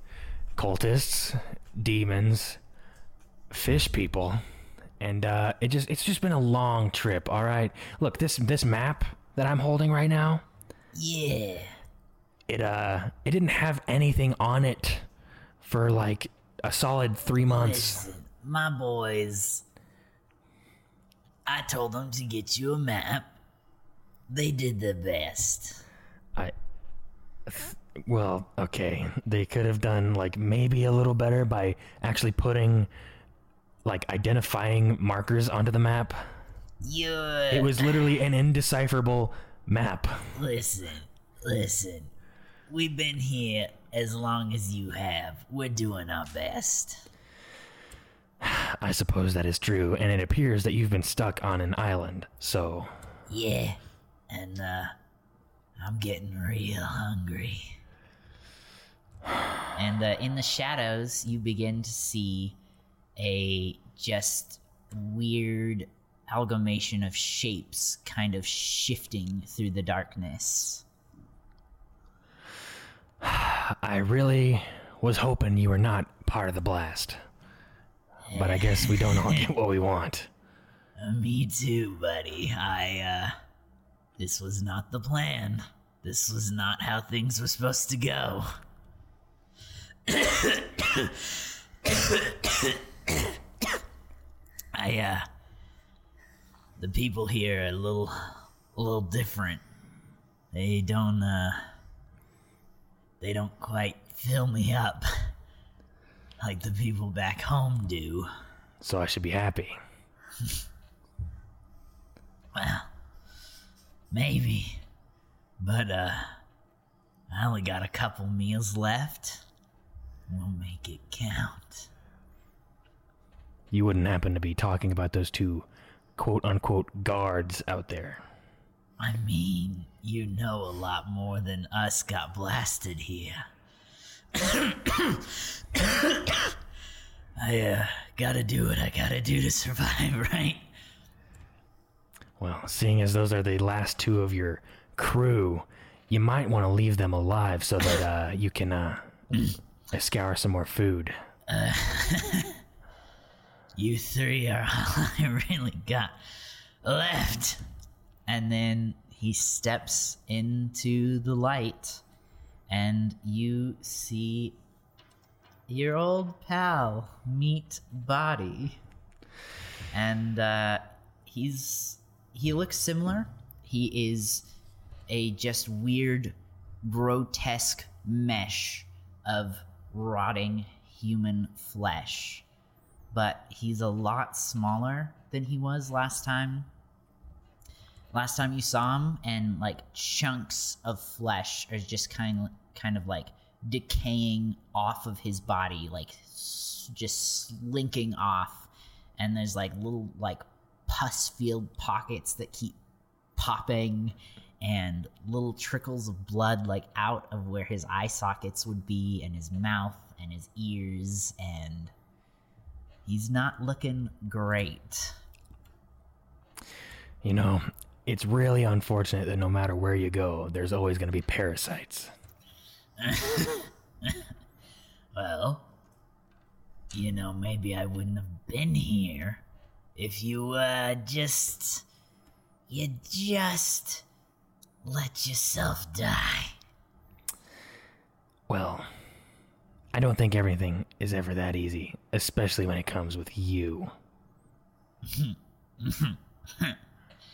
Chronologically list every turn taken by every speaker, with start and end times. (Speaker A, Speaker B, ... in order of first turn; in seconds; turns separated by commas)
Speaker A: 0.6-2.6, Speaker A: 3.5-4.4, Speaker A: 5.0-10.4, Speaker B: 10.9-11.7, Speaker A: 12.5-15.1, Speaker A: 15.6-18.1, Speaker B: 17.4-19.6, Speaker B: 21.4-23.3, Speaker B: 24.3-25.8, Speaker A: 27.4-32.9, Speaker A: 33.8-36.3, Speaker B: 36.8-38.0, Speaker A: 37.5-40.3, Speaker B: 40.3-42.1, Speaker B: 42.7-47.0, Speaker A: 48.4-52.9, Speaker B: 53.3-54.9, Speaker B: 55.8-57.8, Speaker B: 59.8-62.6, Speaker B: 63.1-70.8, Speaker A: 73.2-77.2, Speaker B: 78.2-79.5, Speaker A: 78.3-80.3, Speaker B: 81.0-83.3, Speaker B: 84.2-88.5, Speaker B: 90.1-93.4, Speaker B: 94.7-95.3, Speaker B: 96.8-99.6, Speaker B: 100.5-101.7, Speaker B: 103.2-105.3, Speaker B: 106.4-108.3, Speaker A: 108.8-109.8, Speaker B: 112.5-112.9, Speaker B: 114.1-114.8, Speaker B: 115.6-116.3, Speaker B: 117.3-119.5, Speaker B: 120.3-121.9, Speaker A: 123.7-128.2, Speaker B: 129.0-133.5, Speaker B: 134.3-136.5, Speaker B: 137.4-140.7, Speaker A: 142.4-151.2, Speaker B: 151.5-152.6, Speaker B: 153.7-156.2, Speaker B: 156.8-157.6, Speaker B: 158.3-162.0, Speaker B: 162.7-164.6, Speaker B: 165.7-168.8, Speaker B: 169.9-174.5, Speaker B: 175.1-182.4, Speaker B: 183.1-186.7, Speaker B: 188.1-202.8, Speaker B: 203.4-211.9, Speaker B: 213.1-215.2, Speaker A: 217.2-222.1, Speaker B: 223.0-224.3, Speaker B: 225.1-225.7, Speaker B: 226.9-229.4, Speaker B: 229.9-231.9, Speaker B: 232.7-234.0, Speaker B: 234.8-236.5, Speaker A: 238.5-238.9, Speaker A: 239.9-243.9, Speaker B: 245.1-246.8